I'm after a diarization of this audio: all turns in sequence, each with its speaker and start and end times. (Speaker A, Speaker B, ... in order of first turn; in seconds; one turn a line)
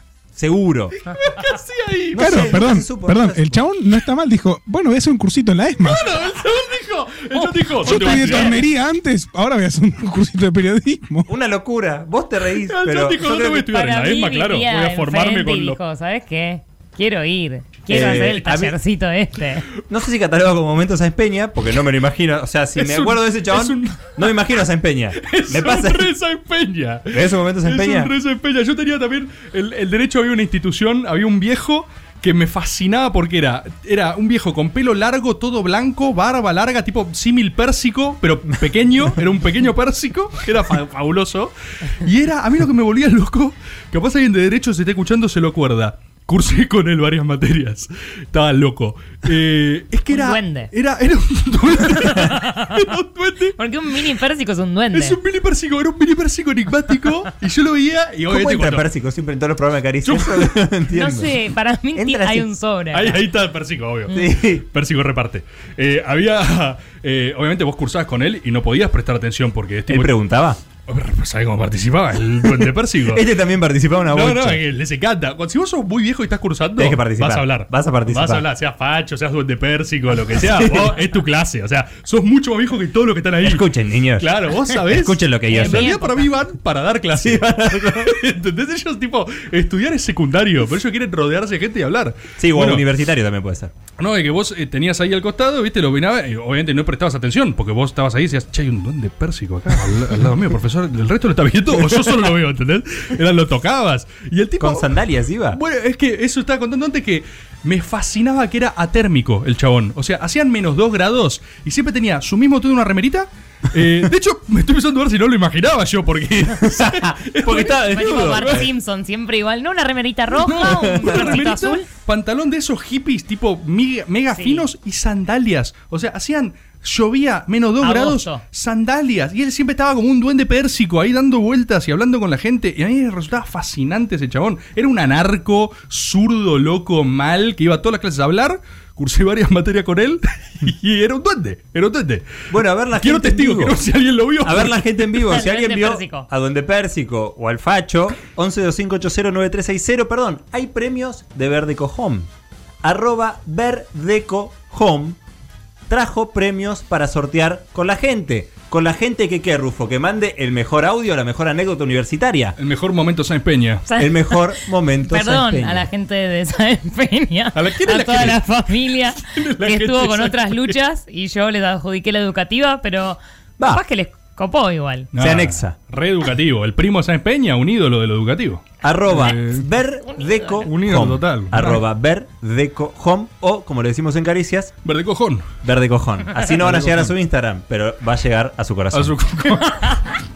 Speaker A: 0.3-0.9
Speaker B: 1.2-2.5
Speaker A: 2.1-3.6
Speaker C: 2.2-6.0
Speaker B: 5.8-8.7
Speaker D: 7.4-8.6
Speaker C: 7.8-11.3
Speaker A: 11.3-13.7
Speaker B: 12.7-15.8
Speaker D: 13.7-19.6
Speaker A: 17.9-18.8
Speaker A: 19.9-26.1
Speaker B: 22.8-24.3
Speaker B: 25.2-53.6
Speaker A: 27.1-28.1
Speaker D: 50.1-50.7
Speaker D: 52.0-52.6
Speaker D: 53.6-55.2
Speaker B: 54.9-58.9
Speaker A: 58.3-61.4
Speaker B: 60.0-60.6
Speaker D: 60.9-63.2
Speaker A: 62.0-62.5
Speaker B: 62.9-70.1
Speaker A: 64.1-64.7
Speaker A: 69.9-70.6
Speaker B: 70.9-73.2
Speaker A: 73.1-74.6
Speaker B: 74.1-83.6
Speaker A: 76.8-78.5
Speaker A: 80.4-81.0
Speaker A: 83.4-84.3
Speaker B: 84.2-92.8
Speaker A: 84.9-85.9
Speaker D: 85.5-86.3
Speaker A: 87.2-88.1
Speaker A: 92.4-93.7
Speaker B: 94.0-104.9
Speaker A: 104.6-105.6
Speaker B: 105.5-118.7
Speaker A: 116.7-118.7
Speaker D: 117.8-121.9
Speaker B: 120.3-142.3
Speaker A: 120.7-121.3
Speaker D: 124.3-124.7
Speaker D: 127.8-128.4
Speaker A: 142.5-143.8
Speaker B: 143.0-145.1
Speaker A: 144.4-152.3
Speaker D: 145.3-146.3
Speaker A: 152.8-155.2
Speaker A: 155.9-162.6
Speaker B: 162.6-163.8
Speaker D: 163.9-164.4
Speaker A: 164.0-165.9
Speaker D: 165.1-175.1
Speaker B: 167.6-168.4
Speaker B: 169.3-170.8
Speaker B: 175.1-179.7
Speaker A: 175.2-175.8
Speaker A: 178.8-184.8
Speaker D: 180.1-180.7
Speaker B: 180.7-181.8
Speaker B: 184.8-185.5
Speaker A: 185.6-189.2
Speaker B: 186.6-187.1
Speaker B: 188.9-189.9